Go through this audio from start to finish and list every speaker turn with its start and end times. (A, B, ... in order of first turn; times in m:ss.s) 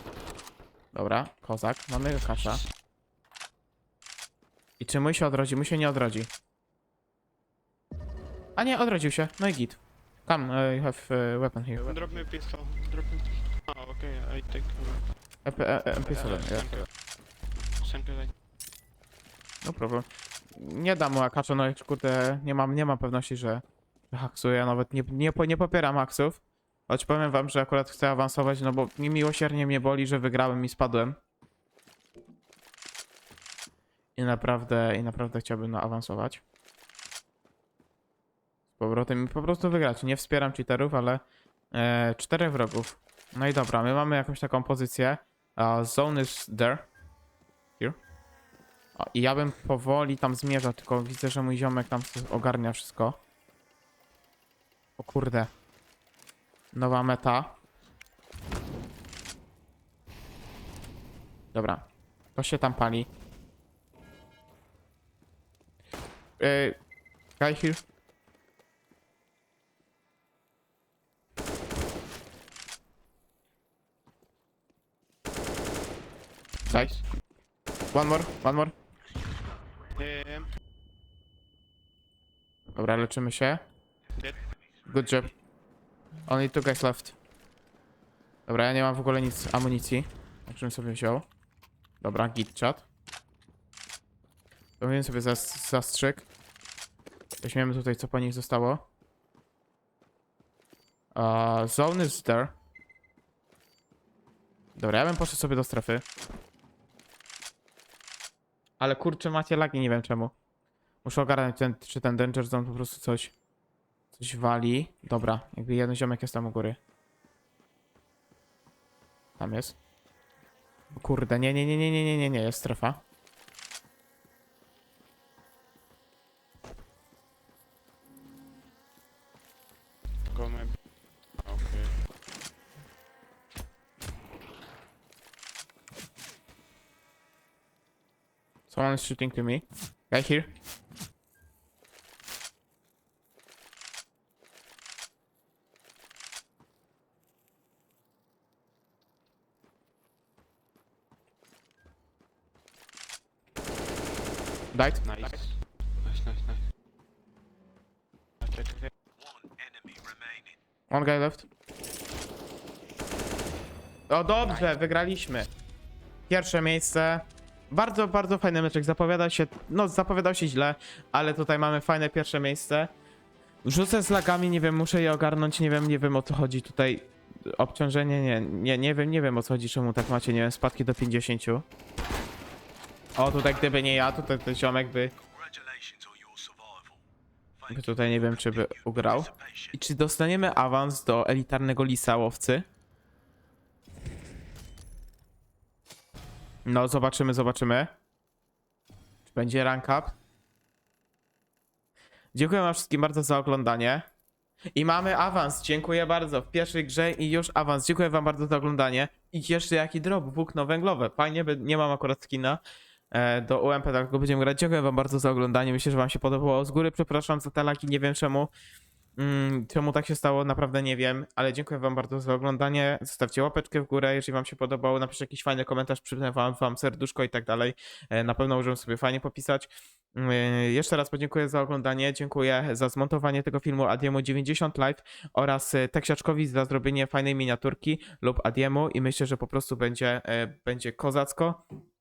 0:00.9-0:02.6 A
0:04.8-0:06.3 A
0:08.6-0:12.0 A
0:11.8-0:15.0 B
0:15.4-0:16.9 A
0:16.0-0:16.9 B
0:17.7-0:18.3 B
0:19.6-0:31.2 A
0:34.2-0:36.4 A
0:38.8-0:41.2 A
0:41.7-0:46.9 A
0:49.0-0:53.2 A
0:55.0-0:55.5 A
0:56.7-0:57.6 A
1:01.5-1:03.1 A
1:06.4-1:06.8 A
1:07.4-1:07.8 A
1:16.7-1:17.0 A
1:16.7-1:17.0 B
1:17.9-1:18.8 A
1:19.9-1:20.5 B
1:22.8-1:23.6 A
1:24.9-1:25.3 A
1:26.3-1:27.2 A
1:28.5-1:31.2 A
1:32.0-1:32.9 A
1:34.8-1:36.3 A
1:37.4-1:38.8 A
1:41.2-1:42.5 A
1:44.8-1:46.0 A
1:48.8-1:50.3 A
1:51.0-1:53.3 A
1:54.1-1:56.8 A
1:59.4-1:59.8 A
2:00.9-2:03.0 A
2:10.3-2:10.8 B
2:11.4-2:11.9 B
2:18.7-2:20.5 A
2:34.7-2:35.3 A
2:35.0-2:36.6 B
2:38.4-2:38.9 B
2:40.9-2:41.5 A
2:44.1-2:45.5 A
2:46.3-2:52.9 A
2:53.6-3:01.6 A
3:03.2-3:05.2 A
3:07.7-3:12.6 A
3:16.6-3:17.9 A
3:19.2-3:20.2 A
3:22.4-3:24.1 A
3:24.8-3:32.6 A
3:33.1-3:38.5 A
3:39.2-4:01.6 A